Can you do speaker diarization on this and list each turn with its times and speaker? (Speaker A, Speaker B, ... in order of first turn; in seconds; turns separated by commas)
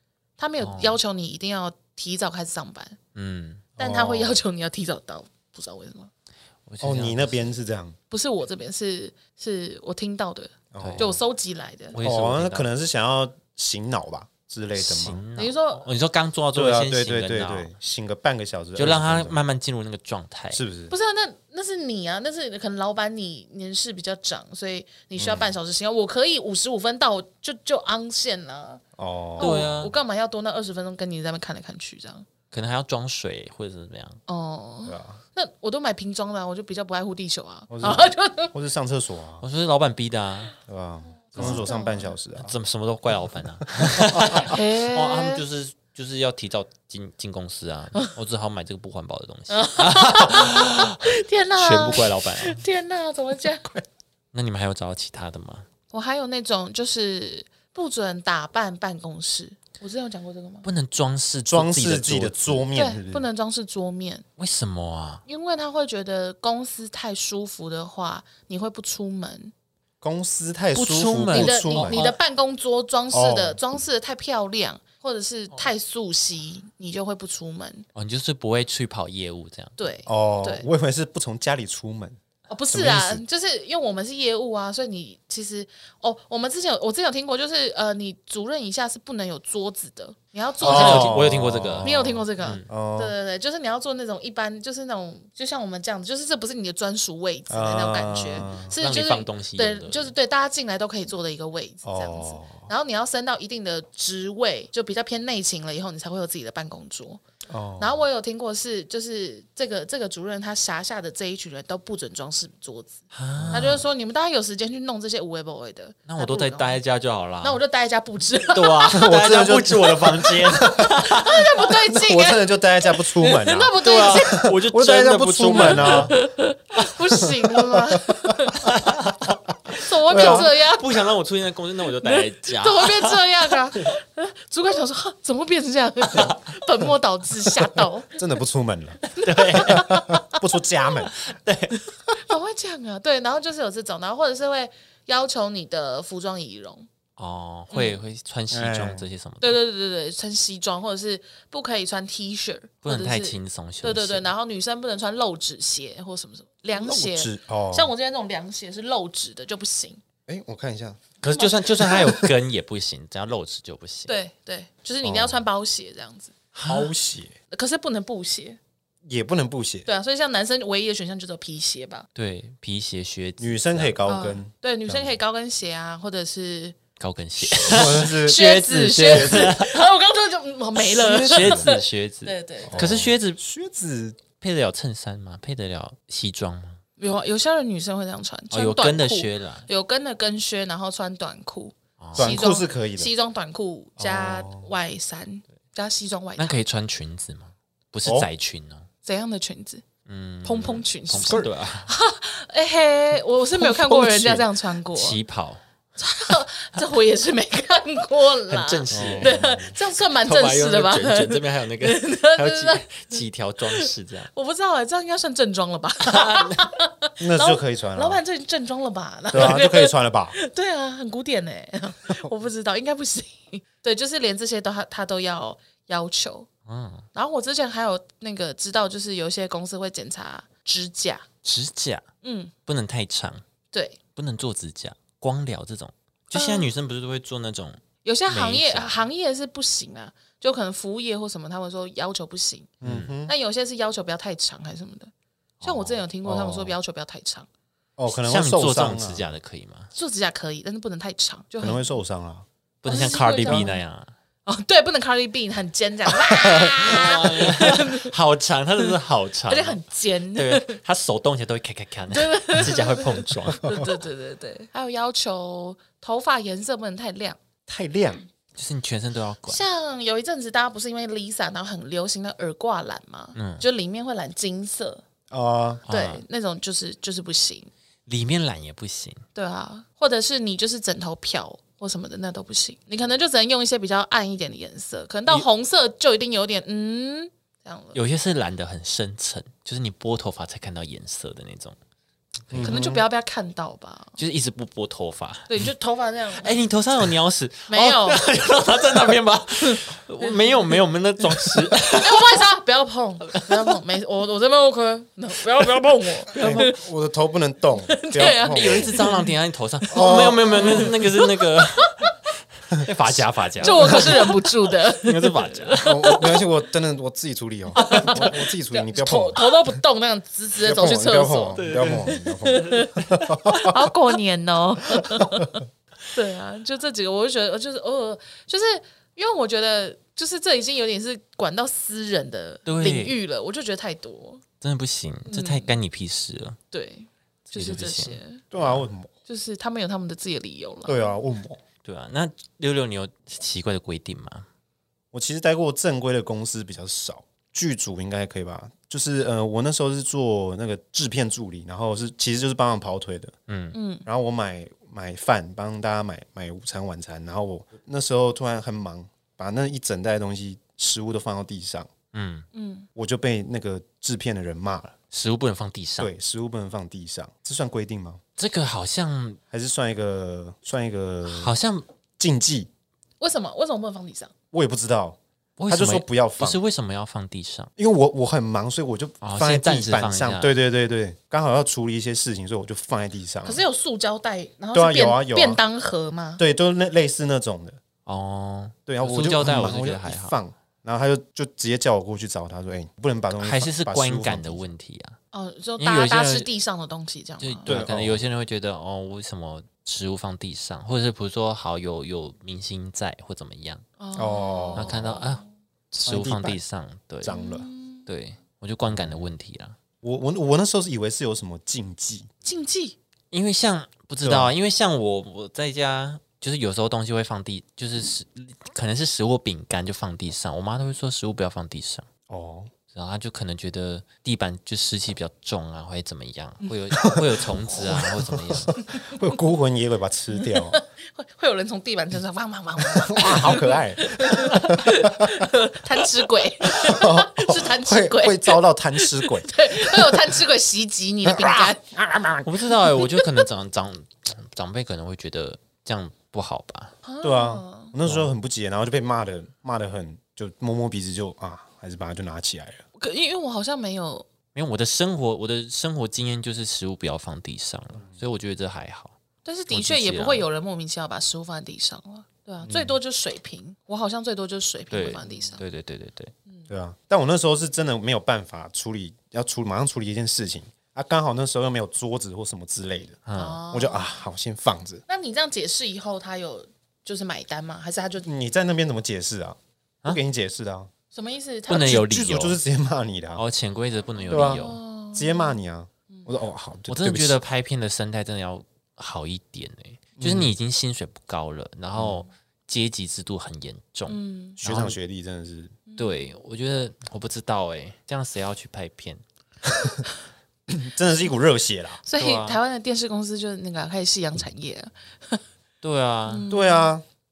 Speaker A: 0.4-3.0, Speaker B: 0.6-1.0, Speaker B: 3.1-3.6, Speaker C: 3.8-4.4, Speaker A: 3.8-6.1, Speaker B: 6.7-7.4, Speaker C: 6.8-8.0, Speaker A: 8.1-12.0, Speaker C: 10.7-11.2, Speaker B: 10.8-11.2, Speaker B: 11.9-12.7, Speaker C: 12.0-15.2, Speaker B: 14.8-17.7, Speaker A: 15.4-15.9, Speaker C: 16.5-19.4, Speaker B: 18.8-20.6, Speaker C: 20.5-20.9, Speaker A: 20.9-28.8, Speaker C: 25.2-25.5, Speaker C: 29.0-29.7, Speaker A: 29.4-32.3, Speaker B: 29.4-29.9, Speaker B: 32.5-34.2, Speaker A: 34.3-38.5, Speaker C: 34.9-35.2, Speaker C: 37.7-39.4, Speaker B: 39.4-40.5, Speaker C: 40.7-42.5, Speaker A: 41.3-42.1, Speaker B: 41.3-41.7, Speaker B: 42.4-51.0, Speaker C: 43.8-44.4, Speaker A: 44.3-45.4, Speaker A: 49.5-53.7, Speaker B: 51.6-52.6, Speaker B: 54.3-55.7, Speaker A: 55.9-60.7, Speaker B: 60.6-62.6, Speaker C: 61.5-63.3, Speaker A: 62.8-64.3, Speaker B: 64.4-65.2, Speaker A: 65.3-69.5, Speaker C: 70.0-72.0, Speaker B: 70.7-72.2, Speaker A: 71.3-77.9, Speaker C: 73.1-73.6, Speaker B: 78.0-79.8, Speaker A: 79.8-80.7, Speaker C: 80.1-82.2, Speaker A: 82.5-91.2, Speaker C: 82.7-83.2, Speaker C: 90.6-93.2, Speaker B: 90.6-92.7, Speaker A: 91.8-107.2, Speaker C: 97.5-98.7, Speaker B: 98.7-100.1, Speaker C: 101.8-102.7, Speaker C: 107.5-108.0, Speaker A: 107.8-116.8, Speaker B: 113.1-113.8, Speaker C: 113.4-113.8, Speaker B: 116.1-117.6, Speaker A: 117.4-119.1, Speaker B: 118.5-121.4, Speaker C: 118.9-126.2, Speaker A: 121.0-124.5, Speaker B: 123.8-126.2, Speaker A: 125.6-128.8, Speaker C: 127.2-128.5, Speaker B: 128.6-133.2, Speaker A: 129.7-131.1, Speaker C: 130.1-130.5, Speaker A: 132.0-138.2, Speaker B: 136.1-136.4, Speaker C: 138.2-139.0, Speaker B: 139.1-139.9, Speaker A: 139.2-140.4, Speaker C: 139.6-141.1, Speaker B: 141.2-141.8, Speaker A: 142.1-146.9, Speaker B: 147.2-149.6, Speaker A: 147.7-148.0, Speaker C: 148.5-149.1, Speaker A: 149.4-160.0, Speaker B: 152.8-154.3, Speaker C: 156.8-157.9, Speaker C: 160.3-161.0, Speaker B: 161.2-164.1, Speaker C: 161.8-162.3, Speaker A: 164.1-166.3, Speaker C: 165.0-165.4, Speaker B: 166.6-166.9, Speaker C: 166.7-167.3, Speaker A: 167.5-168.6, Speaker C: 169.1-169.9, Speaker A: 169.9-172.1, Speaker B: 172.2-174.0, Speaker C: 173.4-175.2, Speaker A: 174.1-176.8, Speaker B: 177.0-179.8, Speaker A: 177.5-182.9, Speaker C: 177.6-179.6, Speaker B: 180.8-183.4, Speaker C: 181.3-181.7, Speaker C: 182.7-184.2, Speaker B: 184.4-186.8, Speaker A: 187.0-196.6, Speaker B: 188.5-189.7, Speaker B: 192.0-192.4, Speaker C: 192.2-193.1, Speaker C: 194.0-194.7, Speaker B: 196.4-198.9, Speaker A: 199.0-199.8, Speaker B: 200.1-201.9, Speaker A: 200.4-205.2, Speaker B: 203.8-204.4, Speaker B: 204.9-205.6, Speaker A: 206.0-226.5, Speaker B: 208.5-209.4, Speaker C: 208.9-209.8, Speaker B: 210.2-214.3, Speaker B: 216.1-216.7, Speaker C: 217.2-218.2, Speaker C: 219.3-220.4, Speaker B: 226.7-227.1, Speaker A: 227.2-231.3, Speaker B: 231.4-232.1, Speaker A: 232.2-232.5, Speaker B: 232.7-233.4, Speaker A: 233.7-234.0, Speaker B: 234.2-239.0, Speaker A: 236.3-236.7, Speaker A: 238.0-245.1, Speaker C: 242.8-243.3, Speaker B: 242.8-243.1, Speaker B: 245.6-246.0, Speaker A: 245.6-247.5, Speaker C: 246.2-246.8, Speaker C: 248.0-249.2, Speaker B: 248.1-249.9, Speaker A: 249.9-251.9, Speaker C: 251.6-252.5, Speaker B: 252.8-254.1, Speaker A: 252.9-253.8, Speaker A: 254.5-258.1, Speaker C: 256.4-256.8, Speaker B: 256.8-263.9, Speaker A: 259.5-260.8, Speaker A: 262.1-267.4, Speaker C: 267.7-268.2, Speaker B: 268.6-269.6, Speaker A: 269.5-275.0, Speaker B: 273.4-273.6, Speaker C: 275.3-275.8, Speaker B: 275.9-276.2, Speaker A: 275.9-277.7, Speaker B: 278.1-279.2, Speaker A: 279.4-288.0, Speaker B: 287.9-291.8, Speaker B: 292.5-292.7, Speaker C: 292.5-293.0, Speaker A: 292.6-294.2, Speaker B: 294.2-295.5, Speaker A: 295.5-296.6, Speaker B: 296.4-302.2, Speaker A: 297.7-298.3, Speaker A: 299.6-300.8, Speaker A: 301.9-306.8, Speaker C: 306.4-309.0, Speaker A: 307.9-309.3, Speaker B: 308.2-312.0, Speaker A: 309.8-311.9, Speaker C: 309.9-310.9, Speaker C: 312.7-314.3, Speaker B: 312.8-315.9, Speaker A: 313.6-316.5, Speaker C: 315.8-319.5, Speaker A: 317.8-322.9, Speaker B: 317.8-318.3, Speaker C: 320.6-323.8, Speaker B: 321.6-323.2, Speaker A: 323.5-334.4, Speaker C: 325.0-325.5, Speaker B: 332.7-333.2, Speaker B: 334.6-336.6, Speaker A: 335.3-335.7, Speaker A: 336.7-338.4, Speaker B: 337.5-338.9, Speaker C: 338.5-339.1, Speaker A: 339.3-341.1, Speaker C: 340.9-341.6, Speaker B: 341.8-344.5, Speaker C: 345.1-353.3, Speaker B: 353.5-353.8, Speaker A: 353.7-354.1, Speaker C: 354.1-361.9, Speaker B: 362.1-362.5, Speaker A: 362.5-362.9, Speaker C: 362.9-364.9, Speaker B: 365.1-366.1, Speaker C: 366.0-368.2, Speaker B: 368.4-369.4, Speaker C: 369.5-371.6, Speaker B: 371.3-371.9, Speaker C: 372.2-372.7, Speaker A: 373.2-374.3, Speaker C: 374.5-375.2, Speaker B: 375.6-377.7, Speaker C: 375.7-376.6, Speaker C: 377.8-383.6, Speaker B: 379.2-380.5, Speaker A: 383.4-386.4, Speaker C: 384.7-385.6, Speaker C: 386.4-387.8, Speaker B: 388.1-390.4, Speaker C: 388.9-394.6, Speaker B: 393.4-395.2, Speaker A: 395.3-397.8, Speaker B: 395.8-396.5, Speaker B: 397.4-403.9, Speaker C: 397.7-398.2, Speaker A: 404.0-405.3, Speaker C: 404.1-405.0, Speaker B: 404.7-405.4, Speaker B: 406.0-407.4, Speaker C: 406.1-406.6, Speaker C: 407.2-407.7, Speaker A: 407.3-408.1, Speaker B: 408.1-409.8, Speaker C: 410.0-412.3, Speaker A: 412.4-413.0, Speaker B: 413.3-422.1, Speaker C: 414.2-414.5, Speaker C: 422.3-422.7, Speaker B: 422.9-428.8, Speaker C: 427.0-430.8, Speaker A: 428.9-429.2, Speaker A: 430.4-441.8, Speaker C: 432.8-435.5, Speaker C: 436.6-440.3, Speaker C: 441.2-442.5, Speaker B: 442.4-446.9, Speaker A: 447.1-447.9, Speaker C: 447.2-452.8, Speaker B: 448.0-448.3, Speaker A: 453.0-454.3, Speaker B: 454.5-459.2, Speaker A: 459.4-465.6, Speaker B: 459.7-460.5, Speaker C: 462.6-463.0, Speaker B: 464.9-466.3, Speaker C: 466.7-475.0, Speaker B: 473.3-473.6, Speaker A: 473.4-474.1, Speaker A: 475.1-478.3, Speaker C: 478.2-480.9, Speaker A: 481.1-482.0, Speaker B: 481.7-482.6, Speaker C: 481.7-483.4, Speaker B: 483.4-484.8, Speaker A: 484.2-485.6, Speaker C: 484.3-484.6, Speaker C: 485.1-487.4, Speaker B: 486.9-495.0, Speaker C: 490.2-490.5, Speaker C: 492.0-492.2, Speaker A: 494.1-494.6, Speaker C: 494.6-495.8, Speaker A: 495.9-496.3, Speaker B: 496.0-499.2, Speaker C: 499.7-500.0, Speaker C: 500.7-502.0, Speaker A: 502.0-505.4, Speaker B: 502.2-502.6, Speaker B: 505.8-506.4, Speaker A: 506.3-506.9, Speaker C: 506.5-507.0